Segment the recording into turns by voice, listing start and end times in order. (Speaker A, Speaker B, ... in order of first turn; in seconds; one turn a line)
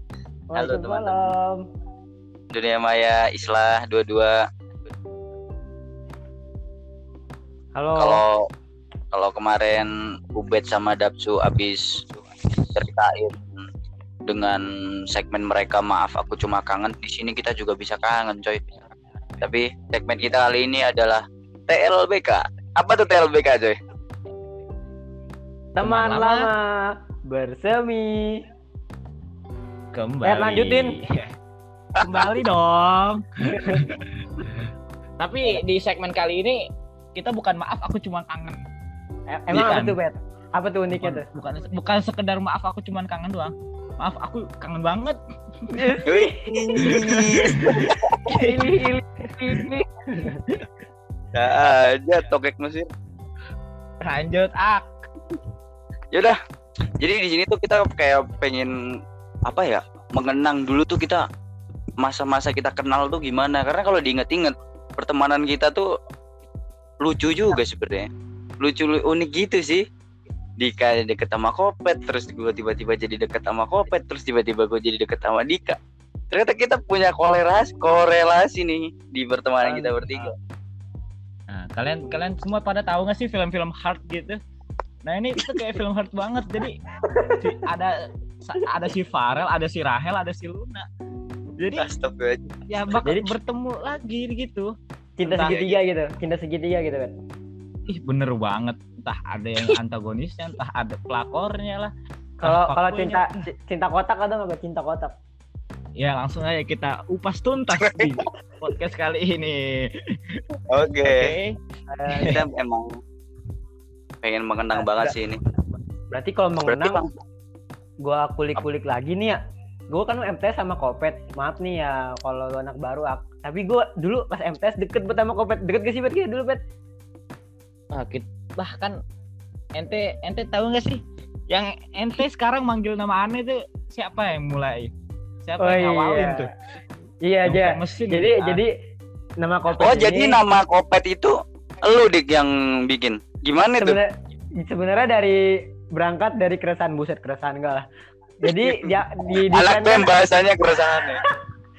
Speaker A: 0.5-1.6
Speaker B: 0.6-1.4
Speaker B: 2.5-4.4
Speaker A: 7.8-8.2
Speaker B: 8.0-8.5
Speaker B: 9.1-12.1
Speaker B: 12.7-13.6
Speaker B: 14.3-18.7
Speaker B: 19.4-23.8
Speaker A: 25.8-28.4
Speaker C: 25.8-26.5
Speaker C: 29.9-31.3
Speaker A: 30.2-31.0
Speaker C: 32.0-34.6
Speaker A: 33.5-33.9
Speaker C: 35.2-36.6
Speaker C: 37.1-38.6
Speaker A: 39.3-41.3
Speaker C: 39.5-40.0
Speaker C: 40.9-46.0
Speaker A: 45.7-50.4
Speaker B: 46.0-48.3
Speaker C: 46.8-49.7
Speaker B: 51.3-52.9
Speaker C: 54.0-54.9
Speaker B: 56.1-56.4
Speaker B: 57.0-58.7
Speaker B: 59.5-61.3
Speaker B: 62.0-65.9
Speaker B: 67.0-68.1
Speaker B: 68.6-69.8
Speaker B: 70.6-75.8
Speaker B: 76.3-80.3
Speaker A: 79.6-80.3
Speaker C: 81.5-84.4
Speaker C: 85.1-90.9
Speaker A: 87.0-87.6
Speaker C: 91.6-91.9
Speaker B: 91.8-92.5
Speaker C: 92.7-95.6
Speaker A: 93.0-93.3
Speaker A: 95.2-97.2
Speaker B: 95.4-95.8
Speaker C: 97.9-103.3
Speaker A: 102.4-105.2
Speaker C: 106.0-110.5
Speaker B: 107.8-108.2
Speaker B: 110.7-111.3
Speaker C: 111.0-111.6
Speaker A: 111.9-112.4
Speaker C: 112.1-112.5
Speaker B: 112.2-113.0
Speaker B: 114.2-115.4
Speaker A: 114.8-115.1
Speaker A: 116.1-117.0
Speaker B: 116.7-117.1
Speaker A: 118.0-119.4
Speaker A: 119.9-126.6
Speaker C: 127.9-129.0
Speaker C: 129.8-134.9
Speaker C: 135.4-136.5
Speaker A: 135.6-136.5
Speaker A: 137.2-138.7
Speaker C: 137.4-138.6
Speaker A: 139.4-140.4
Speaker B: 139.7-144.0
Speaker A: 143.8-147.9
Speaker A: 148.4-150.1
Speaker B: 148.5-151.2
Speaker A: 151.0-151.4